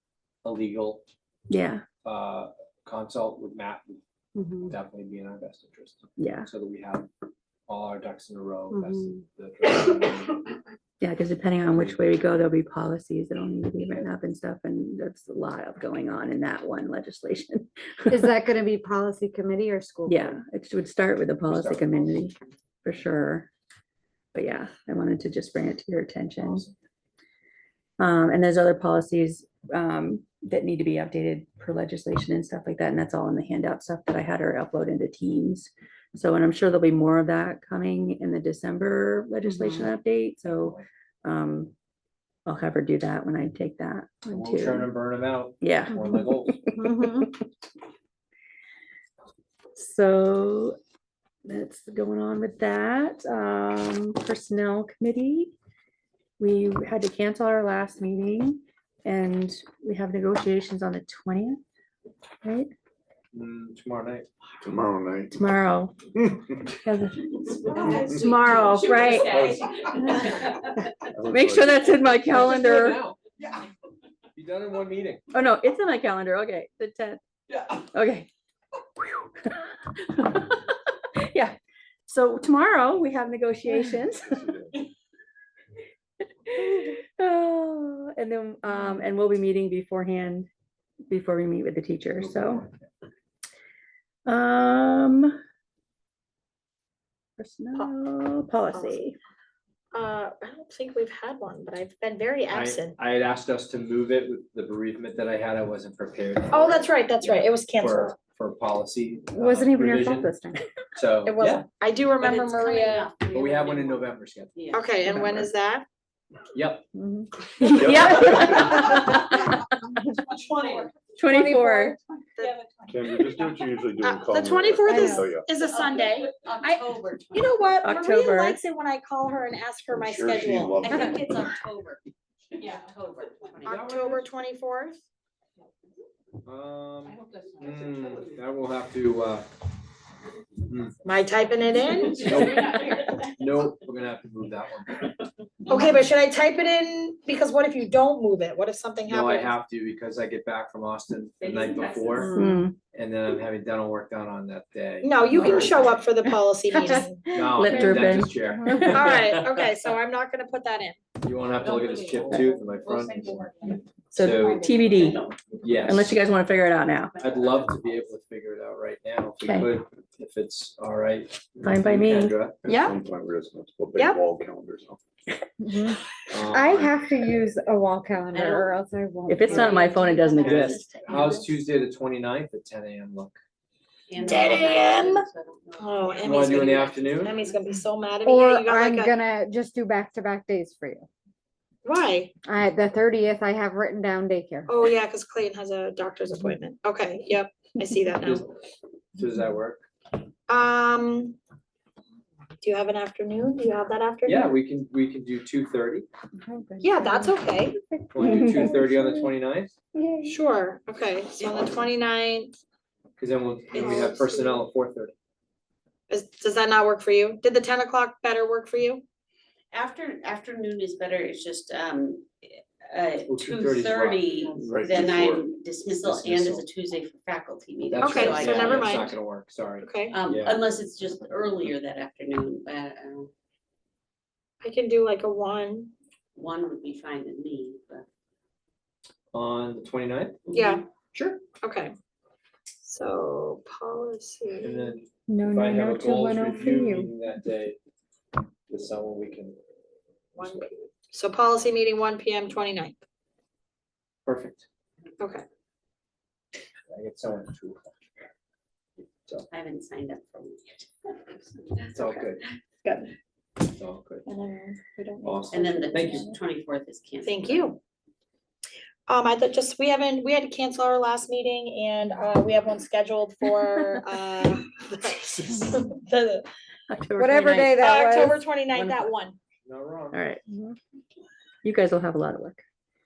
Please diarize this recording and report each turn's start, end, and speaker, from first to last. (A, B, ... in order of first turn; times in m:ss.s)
0:00.4-0:01.0 A
0:01.5-0:01.8 B
0:02.0-0:04.0 A
0:04.4-0:04.7 B
0:04.6-0:07.1 A
0:06.2-0:06.5 B
0:07.7-0:10.6 A
0:08.7-0:09.1 B
0:11.0-0:18.4 B
0:11.6-0:12.0 A
0:18.1-0:20.4 C
0:20.1-0:23.5 B
0:21.5-0:22.1 A
0:24.3-0:26.7 B
0:26.4-0:26.7 A
0:28.0-0:41.7 B
0:40.4-0:40.8 A
0:42.5-0:44.9 B
0:44.3-0:46.6 A
0:45.6-0:47.2 B
0:46.8-0:47.3 C
0:49.8-0:50.8 B
0:51.5-0:55.5 B
0:56.4-1:01.6 B
1:02.4-1:02.7 B
1:03.3-1:04.3 A
1:04.6-1:05.4 D
1:05.3-1:06.0 B
1:06.8-1:09.5 B
1:07.4-1:10.7 E
1:08.0-1:08.2 D
1:09.1-1:10.2 D
1:11.1-1:11.9 D
1:11.3-1:13.0 B
1:12.2-1:13.2 A
1:14.4-1:15.3 A
1:15.3-1:17.2 B
1:17.9-1:18.3 B
1:19.0-1:21.6 B
1:22.1-1:24.4 B
1:24.3-1:24.7 D
1:26.5-1:30.5 B
1:31.1-1:32.7 B
1:32.2-1:32.8 A
1:34.3-1:35.4 B
1:37.4-1:39.2 B
1:38.7-1:39.0 F
1:39.9-1:43.0 F
1:42.5-1:50.3 A
1:46.5-1:48.2 F
1:49.4-1:50.6 C
1:50.1-1:50.4 B
1:51.0-1:51.6 A
1:51.2-1:53.1 F
1:52.2-1:54.9 E
1:53.3-1:54.5 A
1:54.7-1:55.8 F
1:56.5-1:56.9 A
1:57.0-1:57.3 C
1:57.6-1:59.6 B
1:57.8-1:58.7 D
1:57.9-1:58.3 A
1:57.9-1:59.3 F
2:00.2-2:00.9 F
2:01.2-2:02.0 B
2:01.4-2:02.2 C
2:02.4-2:11.0 F
2:02.9-2:05.5 D
2:04.9-2:05.2 C
2:05.6-2:07.6 E
2:07.8-2:08.6 B
2:09.9-2:11.5 D
2:10.8-2:12.0 E
2:12.5-2:14.1 E
2:13.6-2:15.0 F
2:13.6-2:14.2 A
2:16.4-2:19.5 A
2:20.7-2:21.0 A
2:21.0-2:22.3 F
2:22.2-2:25.2 A
2:22.3-2:23.0 E
2:25.7-2:29.5 F
2:29.1-2:32.3 A
2:31.4-2:32.4 E
2:32.2-2:32.4 F
2:32.3-2:32.8 B
2:32.9-2:35.8 A
2:35.0-2:37.3 F
2:35.4-2:35.7 B
2:36.2-2:39.1 B
2:37.3-2:39.6 A
2:38.9-2:41.0 F
2:41.2-2:43.5 A
2:41.6-2:43.8 E
2:44.1-2:45.2 B
2:44.2-2:44.6 A
2:45.0-2:45.3 E
2:45.6-2:46.2 A
2:45.8-2:47.2 B
2:47.2-2:52.6 A
2:47.2-2:47.7 E
2:49.4-2:49.7 B
2:51.6-2:53.0 B
2:52.6-2:55.0 D
2:54.0-2:54.2 F
2:55.6-2:59.3 C
2:56.3-2:57.0 A
2:58.3-3:01.6 E
2:59.3-3:00.8 B
3:00.4-3:03.4 A
3:04.1-3:07.7 E
3:04.2-3:05.2 F
3:05.8-3:09.1 F
3:06.2-3:07.4 A
3:08.2-3:11.1 C
3:11.8-3:12.3 F
3:12.4-3:14.7 C
3:14.7-3:18.5 F
3:18.2-3:18.5 A
3:19.2-3:19.8 A
3:20.5-3:21.4 F
3:22.6-3:24.6 F
3:24.2-3:26.1 A
3:26.4-3:29.4 C
3:26.8-3:27.8 F
3:28.1-3:29.8 A
3:28.2-3:28.6 B
3:29.9-3:30.4 C
3:30.2-3:32.5 F
3:31.4-3:31.7 E
3:33.2-3:35.1 A
3:33.7-3:34.2 E
3:33.8-3:34.6 F
3:36.1-3:39.0 F
3:39.7-3:49.2 E
3:43.3-3:45.1 A
3:44.6-3:45.5 D
3:45.9-3:46.6 A
3:47.8-3:50.6 A
3:48.0-3:49.1 F
3:49.8-3:50.2 F
3:50.1-3:53.3 E
3:54.6-3:55.9 F
3:56.4-3:58.0 E
3:59.3-4:00.4 A
4:00.5-4:00.8 E
4:00.5-4:00.8 F
4:01.1-4:01.4 A
4:01.6-4:01.9 F
4:02.8-4:04.9 F
4:04.6-4:07.8 A
4:05.3-4:07.1 C
4:08.7-4:09.6 A
4:10.4-4:13.0 F
4:10.4-4:10.7 A
4:14.2-4:14.7 A
4:15.2-4:15.4 F
4:16.9-4:18.0 A
4:19.5-4:21.9 E
4:21.9-4:22.4 A
4:22.0-4:22.3 B
4:22.8-4:23.1 B
4:23.7-4:24.2 A
4:25.0-4:25.4 B
4:25.2-4:26.3 A
4:25.5-4:27.7 E
4:27.2-4:27.8 F
4:29.1-4:36.5 F
4:36.9-4:37.9 B
4:37.2-4:38.5 C
4:37.6-4:39.4 F
4:38.7-4:39.1 B
4:39.6-4:40.2 A
4:40.1-4:40.4 B
4:41.6-4:42.6 B